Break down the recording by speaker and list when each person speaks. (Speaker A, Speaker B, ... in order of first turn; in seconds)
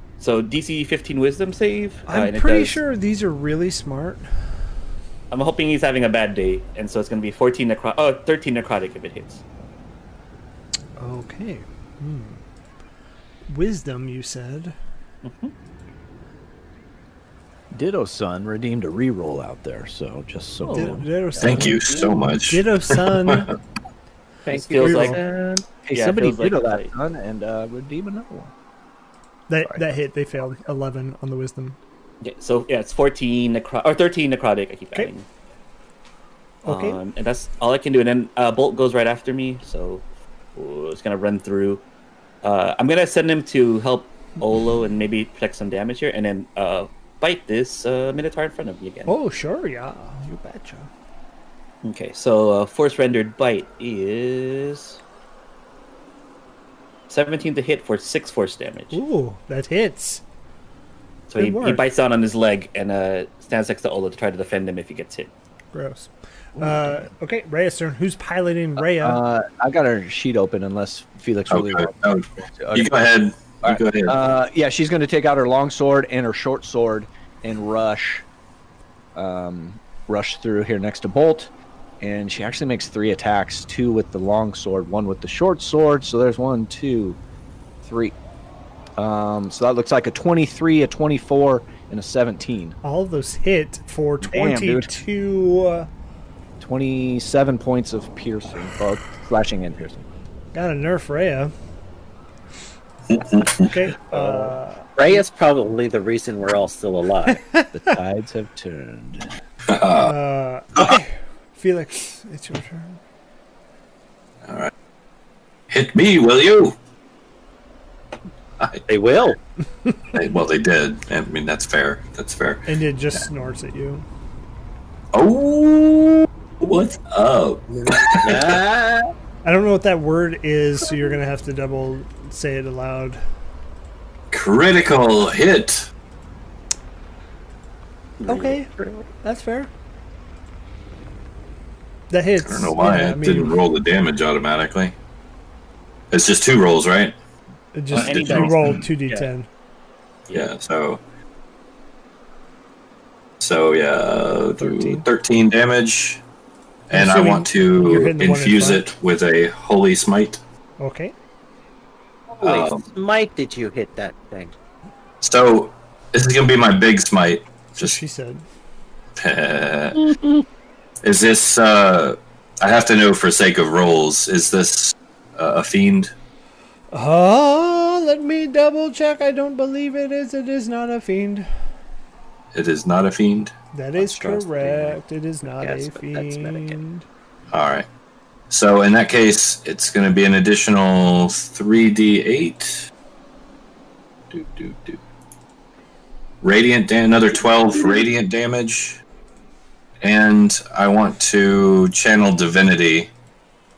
Speaker A: 0.2-2.8, 5.3-9.4, 15.2-15.5, 24.5-25.2, 25.9-26.9, 32.2-35.3, 36.7-40.0, 40.6-41.8, 42.4-49.1, 51.8-55.0, 57.1-59.0, 61.3-65.3, 138.2-138.6, 148.0-149.3
Speaker B: 2.1-4.3, 11.0-12.4, 13.5-14.8, 20.7-21.9, 22.4-23.5, 24.8-25.2, 29.5-31.8, 36.6-37.0, 49.1-50.9, 58.9-60.2, 61.4-61.8, 65.7-69.2, 92.8-95.9, 100.5-101.5, 103.6-104.9, 107.3-108.0, 110.0-113.0, 122.7-124.0, 129.4-133.2, 138.2-139.7, 142.1-143.6, 147.8-149.5, 154.6-155.1, 156.9-158.9, 160.8-161.1, 167.8-168.4, 176.9-181.5, 183.7-187.1
Speaker C: 17.7-21.8, 25.8-28.5, 69.0-73.0, 73.6-78.2, 79.2-87.2, 87.8-88.2, 89.0-92.8, 94.2-94.9, 96.6-100.1, 104.1-104.5, 107.7-109.3
Speaker D: 21.4-23.5, 71.5-74.2, 103.1-103.7, 109.7-110.1, 114.4-114.7, 115.7-116.8, 118.6-118.8, 120.1-122.7, 125.1-128.6, 134.3-135.9, 142.4-144.9, 146.1-147.2, 147.9-148.8, 150.3-151.0, 153.4-156.2, 156.9-160.4, 162.4-162.9, 165.2-168.0, 169.2-170.2, 171.0-176.1, 182.5-183.5, 187.5-187.9, 188.5-192.9, 194.3-195.0, 196.4-199.0, 200.0-203.1
Speaker E: 24.5-25.6, 105.0-107.4, 118.9-119.4, 128.2-129.1, 162.3-164.5, 184.0-185.0, 185.6-186.8